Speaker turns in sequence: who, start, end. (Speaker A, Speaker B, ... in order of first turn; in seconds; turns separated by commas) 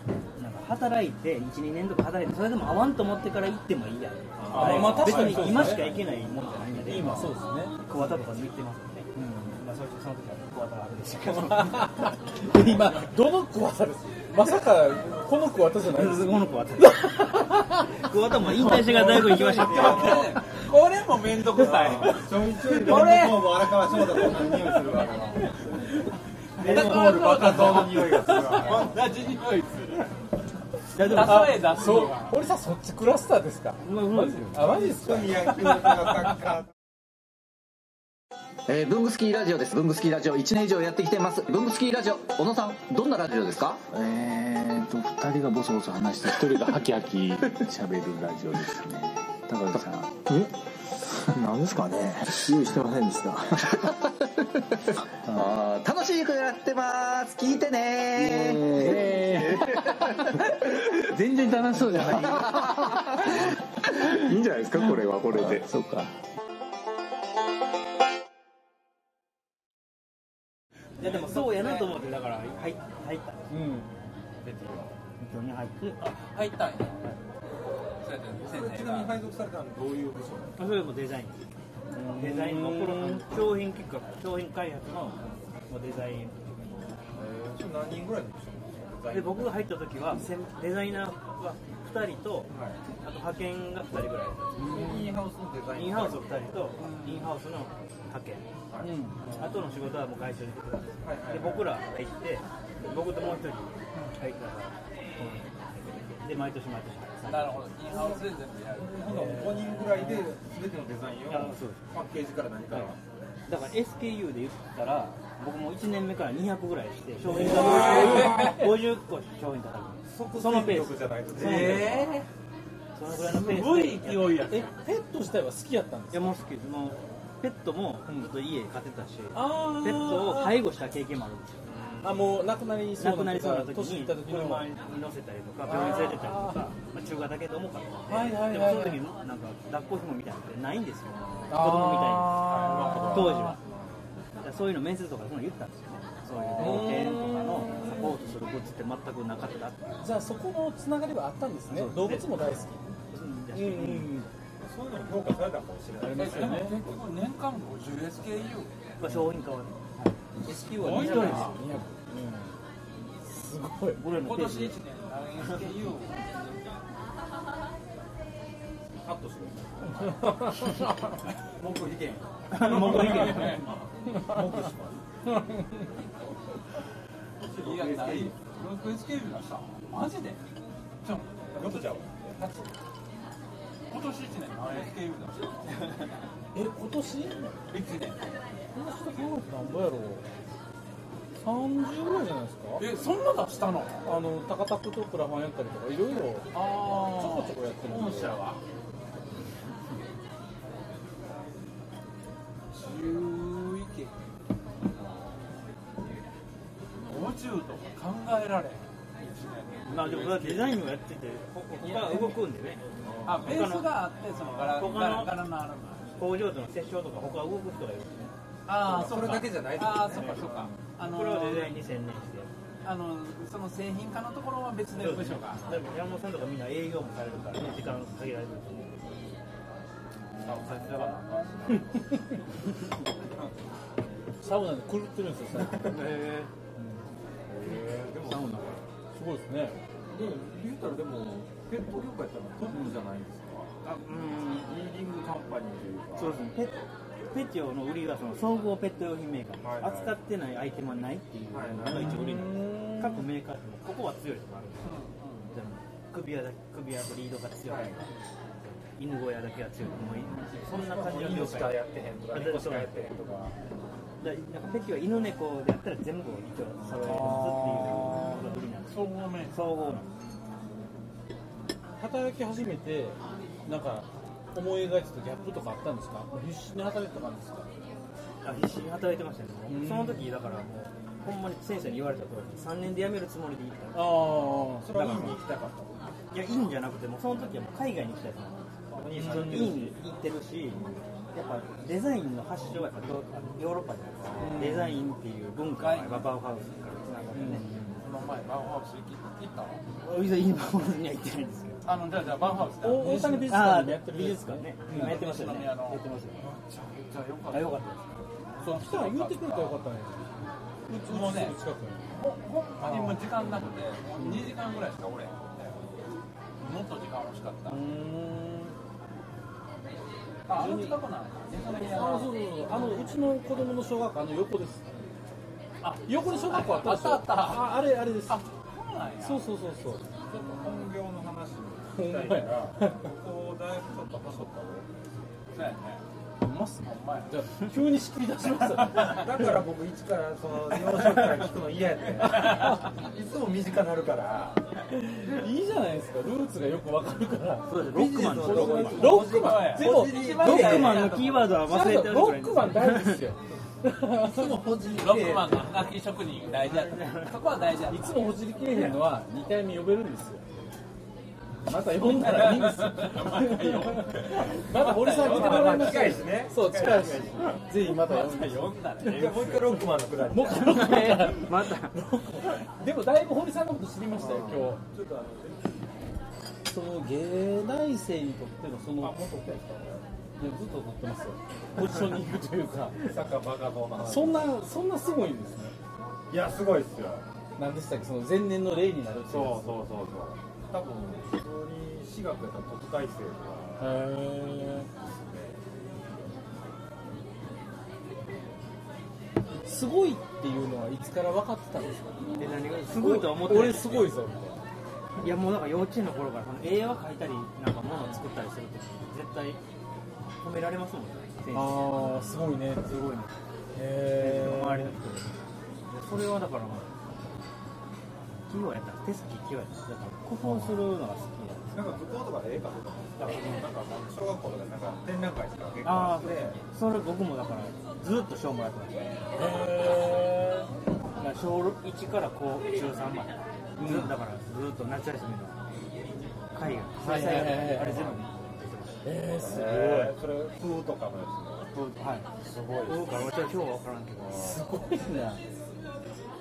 Speaker A: 0.4-12.1, Speaker B: 4.4-6.0, Speaker C: 4.5-6.0, Speaker D: 4.5-5.2, Speaker C: 6.7-7.7, Speaker C: 9.1-9.5, Speaker C: 11.3-20.4, Speaker A: 15.8-20.4, Speaker D: 18.9-24.3, Speaker B: 21.6-25.6, Speaker B: 26.6-29.1, Speaker D: 26.6-30.1, Speaker A: 26.6-27.2, Speaker D: 30.9-32.4, Speaker C: 30.9-35.9, Speaker A: 33.8-34.6, Speaker B: 34.5-36.7, Speaker E: 38.7-43.9, Speaker F: 43.9-50.5, Speaker F: 51.3-53.7, Speaker E: 52.4-52.9, Speaker E: 53.6-54.1, Speaker E: 55.3-65.7, Speaker F: 58.2-59.0, Speaker C: 58.8-59.6, Speaker F: 61.7-62.3, Speaker F: 64.3-66.1, Speaker A: 71.0-73.5, Speaker D: 71.0-71.9, Speaker C: 73.5-73.9, Speaker B: 74.4-74.9, Speaker A: 75.2-76.0, Speaker D: 76.0-77.0, Speaker D: 78.0-79.2, Speaker B: 78.4-80.7, Speaker A: 80.6-81.4, Speaker C: 81.9-83.2, Speaker A: 82.1-86.5, Speaker B: 87.1-89.5, Speaker A: 89.1-92.5, Speaker B: 92.5-92.8, Speaker A: 93.0-95.0, Speaker C: 94.6-95.2, Speaker B: 94.6-96.7, Speaker A: 95.7-98.5, Speaker D: 96.8-97.3, Speaker B: 98.7-99.4, Speaker C: 98.8-99.3, Speaker A: 99.3-104.7, Speaker B: 101.0-101.7, Speaker A: 106.2-107.5, Speaker D: 107.2-109.5, Speaker B: 108.7-113.0, Speaker A: 111.3-111.9, Speaker A: 113.5-122.0, Speaker C: 117.3-118.6, Speaker B: 117.3-118.5, Speaker D: 117.5-118.5, Speaker B: 120.1-122.2, Speaker D: 121.3-122.3, Speaker A: 123.0-124.5, Speaker D: 123.1-124.6, Speaker C: 124.5-126.3, Speaker A: 126.1-131.6, Speaker C: 129.3-130.6, Speaker B: 131.7-132.1, Speaker C: 132.0-134.7, Speaker A: 133.0-143.6, Speaker C: 135.6-136.6, Speaker C: 138.1-139.0, Speaker C: 141.5-143.6, Speaker B: 142.4-143.8, Speaker D: 142.5-143.1, Speaker A: 144.4-150.1, Speaker C: 146.6-148.1, Speaker C: 150.0-152.8, Speaker A: 151.7-154.2, Speaker C: 153.5-154.3, Speaker B: 154.6-156.8, Speaker C: 156.0-156.8, Speaker D: 156.1-158.7, Speaker A: 159.0-161.6, Speaker C: 160.5-162.6, Speaker D: 160.8-161.6, Speaker C: 163.2-164.0, Speaker A: 163.9-164.8, Speaker D: 164.1-166.6, Speaker B: 169.0-171.0, Speaker C: 170.2-171.1, Speaker B: 171.5-175.0, Speaker A: 172.6-173.6, Speaker D: 172.6-173.7, Speaker C: 174.1-174.5, Speaker C: 175.3-175.8, Speaker B: 177.4-178.3, Speaker D: 177.6-180.4, Speaker D: 181.0-182.7, Speaker B: 181.5-182.4, Speaker D: 183.9-186.1, Speaker C: 186.5-187.5, Speaker D: 187.7-188.3, Speaker C: 188.7-190.3, Speaker C: 191.3-192.8, Speaker D: 192.8-194.1, Speaker C: 194.0-198.4, Speaker D: 196.5-198.6, Speaker D: 202.7-204.1, Speaker D: 207.0-210.8, Speaker A: 209.8-212.8, Speaker D: 211.8-212.3, Speaker B: 213.0-213.5, Speaker D: 213.2-216.1, Speaker A: 213.4-213.9, Speaker B: 214.3-214.8, Speaker A: 214.7-215.3, Speaker A: 216.1-218.3, Speaker D: 218.7-221.8, Speaker B: 218.8-220.8, Speaker A: 221.0-222.5, Speaker D: 222.8-225.8, Speaker A: 224.9-229.1, Speaker B: 230.4-231.5, Speaker D: 230.4-231.6, Speaker C: 234.4-236.1, Speaker A: 235.8-236.5, Speaker C: 236.8-237.0, Speaker B: 237.5-238.8, Speaker A: 237.7-238.8, Speaker C: 239.1-239.8, Speaker B: 240.1-243.7, Speaker A: 243.8-244.8, Speaker B: 244.6-246.5, Speaker A: 246.2-258.1, Speaker B: 249.6-250.2, Speaker B: 251.5-252.5, Speaker C: 251.8-253.2, Speaker D: 254.8-255.5, Speaker B: 257.7-258.0, Speaker A: 258.6-262.9, Speaker D: 259.9-260.6, Speaker B: 260.6-263.6, Speaker A: 264.2-270.1, Speaker C: 266.9-268.5, Speaker D: 268.9-270.0, Speaker C: 272.0-277.7, Speaker A: 278.4-284.2, Speaker C: 279.7-280.3, Speaker C: 283.9-284.9, Speaker B: 284.8-286.1, Speaker A: 284.9-285.4, Speaker A: 286.3-290.8, Speaker B: 288.9-289.9, Speaker C: 289.2-289.8, Speaker A: 291.3-297.6, Speaker B: 294.3-294.7, Speaker C: 294.4-295.0, Speaker D: 295.8-296.3, Speaker C: 297.3-298.0, Speaker D: 298.0-299.8, Speaker A: 300.0-301.8, Speaker D: 301.8-303.6, Speaker C: 302.8-305.2, Speaker A: 303.4-306.4, Speaker D: 304.9-306.0, Speaker C: 306.4-306.8, Speaker D: 306.9-307.8, Speaker A: 307.5-308.2, Speaker D: 308.6-309.8, Speaker C: 308.6-310.3, Speaker C: 310.9-312.2, Speaker D: 311.1-311.6, Speaker D: 312.1-315.4, Speaker C: 312.8-314.5, Speaker D: 316.6-317.8, Speaker C: 317.7-318.8, Speaker D: 320.5-323.1, Speaker C: 320.5-321.0, Speaker C: 321.7-324.9, Speaker D: 325.8-327.7, Speaker C: 326.1-328.4, Speaker D: 328.3-329.4, Speaker C: 329.2-330.1, Speaker B: 330.3-334.9, Speaker D: 330.4-330.9, Speaker C: 331.9-333.1, Speaker D: 335.5-336.0, Speaker C: 336.4-339.6, Speaker D: 336.8-337.3, Speaker D: 338.6-339.2, Speaker B: 339.0-344.6, Speaker D: 342.2-342.8, Speaker C: 342.3-342.8, Speaker C: 344.9-354.6, Speaker A: 347.7-349.2, Speaker B: 347.9-351.0, Speaker D: 349.0-351.5, Speaker A: 350.2-353.2, Speaker B: 354.2-355.9, Speaker D: 354.8-358.4, Speaker A: 356.6-357.4, Speaker C: 357.9-360.4, Speaker C: 361.6-369.0, Speaker D: 362.0-366.2, Speaker B: 365.1-367.7, Speaker D: 367.9-369.9, Speaker B: 369.0-371.0, Speaker C: 370.2-374.8, Speaker A: 370.7-372.0, Speaker B: 374.2-375.7, Speaker C: 376.6-379.2, Speaker B: 379.0-380.0, Speaker C: 380.4-383.0, Speaker B: 383.0-384.5, Speaker C: 383.9-385.7, Speaker B: 386.3-387.2, Speaker C: 387.6-389.8, Speaker B: 389.3-394.0, Speaker C: 393.8-394.9, Speaker B: 394.9-395.6, Speaker C: 399.5-402.2, Speaker A: 402.4-404.1, Speaker C: 402.9-404.6, Speaker A: 405.2-409.6, Speaker A: 410.4-413.3, Speaker C: 411.5-412.9, Speaker C: 413.7-415.0, Speaker A: 414.1-416.9, Speaker A: 418.5-422.0, Speaker C: 420.4-420.8, Speaker B: 421.7-426.6, Speaker A: 423.2-423.6, Speaker A: 425.8-429.3, Speaker C: 429.3-430.7, Speaker A: 431.2-435.6, Speaker C: 433.8-434.1, Speaker A: 436.5-439.1, Speaker C: 437.0-438.2, Speaker C: 439.0-440.1, Speaker B: 439.4-441.8, Speaker B: 442.4-443.5, Speaker A: 442.8-444.6, Speaker C: 444.3-445.4